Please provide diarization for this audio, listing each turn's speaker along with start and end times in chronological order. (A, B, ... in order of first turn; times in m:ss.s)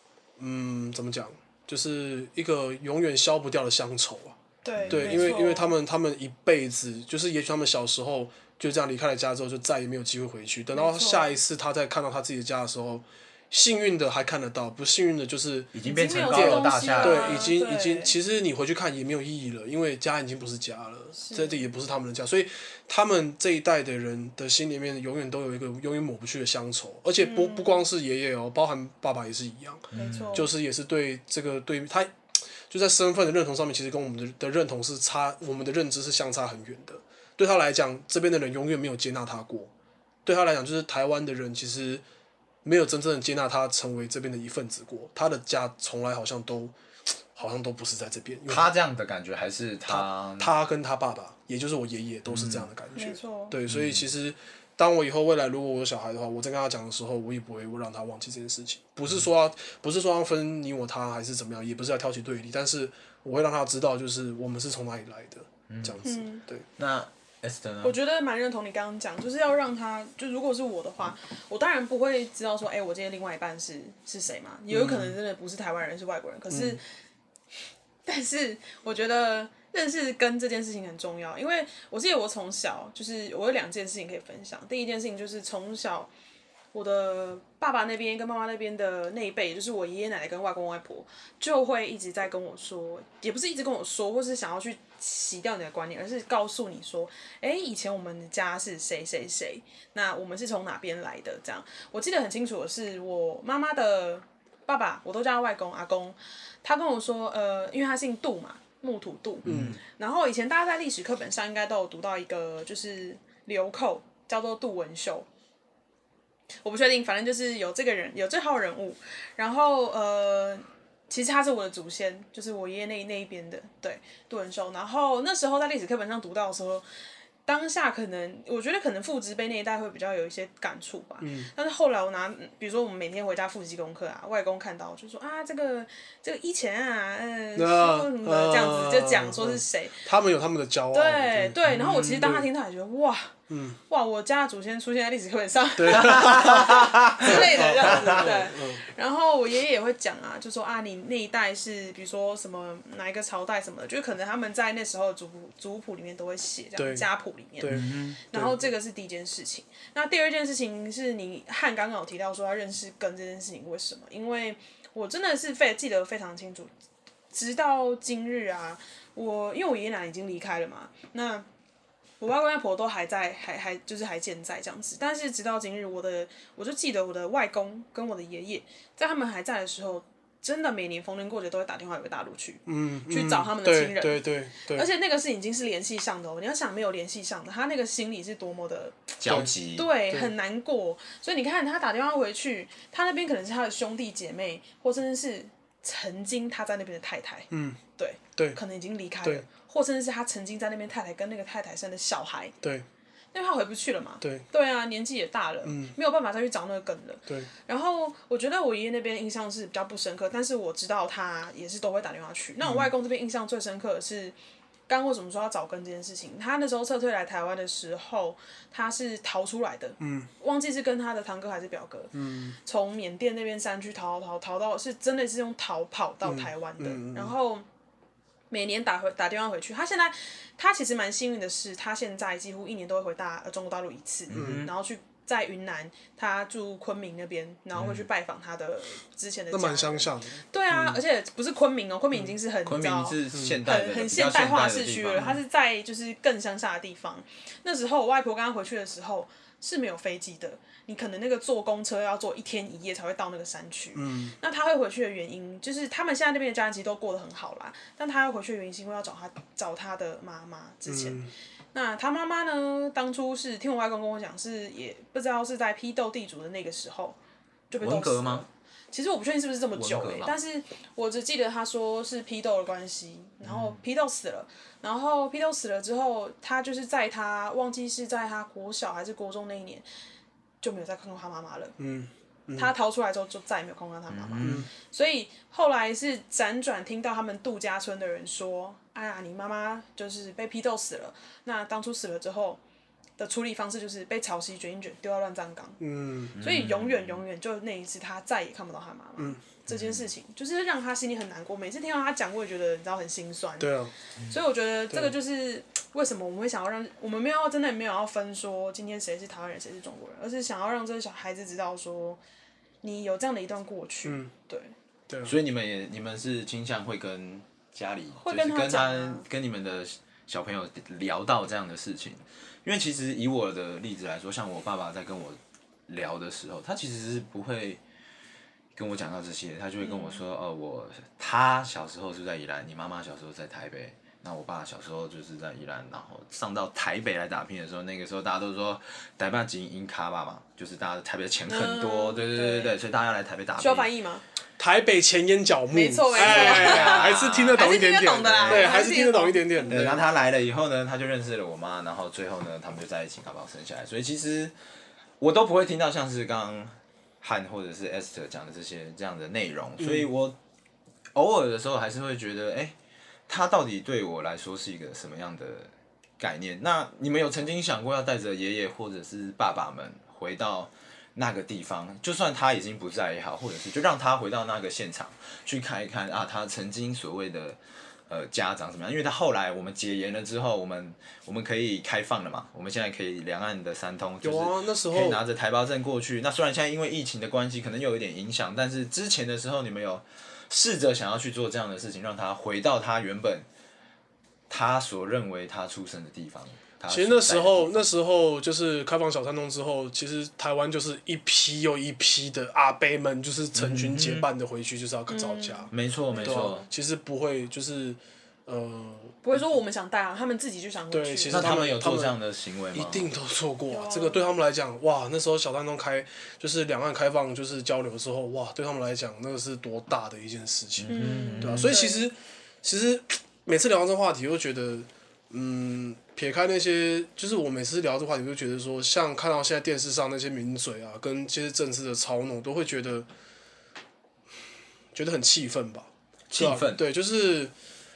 0:00.4-0:04.4 A
0:04.6-0:05.7 B
0:04.8-0:05.4 C
0:04.9-0:39.7 A
0:10.7-0:11.4 B
0:15.7-0:17.5 C
0:15.8-0:18.2 B
0:21.2-0:21.7 B
0:27.2-0:27.8 B
0:29.9-0:30.5 C
0:29.9-0:30.5 B
0:40.2-0:42.0 A
0:42.6-0:46.8 A
0:47.4-0:48.7 A
0:48.5-0:50.5 C
0:49.9-1:06.7 A
0:52.3-0:52.7 C
0:53.0-0:53.6 B
0:53.7-0:54.0 C
1:05.7-1:06.0 C
1:06.0-1:06.4 B
1:06.8-1:08.0 C
1:07.8-1:16.8 B
1:14.7-1:15.1 A
1:16.5-1:16.8 A
1:18.1-1:26.1 B
1:26.7-1:55.3 B
1:49.4-1:49.8 C
1:49.5-1:49.8 A
1:56.6-2:06.9 B
2:07.5-2:20.0 B
2:11.2-2:11.5 A
2:17.6-2:22.5 A
2:20.9-2:23.4 B
2:21.7-2:22.2 C
2:23.5-2:23.8 A
2:23.9-2:46.7 B
2:25.8-2:28.8 A
2:25.9-2:28.2 C
2:36.8-2:37.1 A
2:37.6-2:38.6 A
2:37.7-2:38.2 C
2:47.3-2:51.5 B
2:52.2-3:22.5 B
3:02.7-3:04.9 A
3:09.2-3:09.9 C
3:17.5-3:17.8 A
3:23.3-3:34.4 B
3:25.6-3:26.0 A
3:32.6-3:32.9 A
3:34.9-3:47.7 B
3:40.0-3:40.3 A
3:42.1-3:42.6 A
3:46.2-3:47.4 A
3:48.5-4:21.2 B
3:54.3-3:54.7 C
3:54.4-3:54.6 A
3:57.8-3:58.0 C
3:59.5-4:01.0 A
4:02.6-4:05.4 C
4:03.3-4:03.6 A
4:14.0-4:14.4 A
4:20.9-4:21.3 A
4:21.7-4:27.2 B
4:27.7-4:39.8 B
4:27.8-4:28.5 C
4:29.8-4:30.4 C
4:33.4-4:33.8 C
4:40.6-4:41.8 B
4:41.8-4:42.7 A
4:42.6-4:52.6 B
4:44.1-4:44.6 C
4:44.4-4:44.7 A
4:53.2-4:55.8 B
4:55.8-4:56.4 A
4:56.3-5:03.7 B
4:56.4-4:57.2 C
4:59.7-5:00.1 C
5:03.6-5:03.9 A
5:04.3-5:12.2 B
5:12.8-5:14.8 B
5:14.0-5:14.3 A
5:15.2-5:27.8 C
5:18.2-5:19.3 B
5:28.8-5:43.9 C
5:29.8-5:30.2 B
5:41.5-5:42.8 B
5:43.6-5:44.2 B
5:44.6-5:50.0 A
5:45.7-5:49.9 B
5:46.2-5:47.7 C
5:48.2-5:48.8 C
5:49.7-5:54.5 C
5:55.2-6:00.4 C
5:59.8-6:00.1 A
6:01.2-6:02.8 C
6:03.3-6:17.6 C
6:18.1-6:33.5 C
6:24.2-6:25.2 A
6:34.5-6:37.8 C
6:36.9-6:45.7 A
6:43.6-6:44.3 C
6:45.1-6:46.7 B
6:45.7-6:46.7 C
6:46.2-6:49.5 A
6:49.2-6:51.5 B
6:50.9-6:52.2 A
6:51.3-6:53.1 C
6:52.7-7:13.1 A
6:53.7-6:54.2 B
7:00.8-7:01.8 C
7:00.9-7:02.1 B
7:14.9-7:17.5 A
7:16.3-7:16.8 C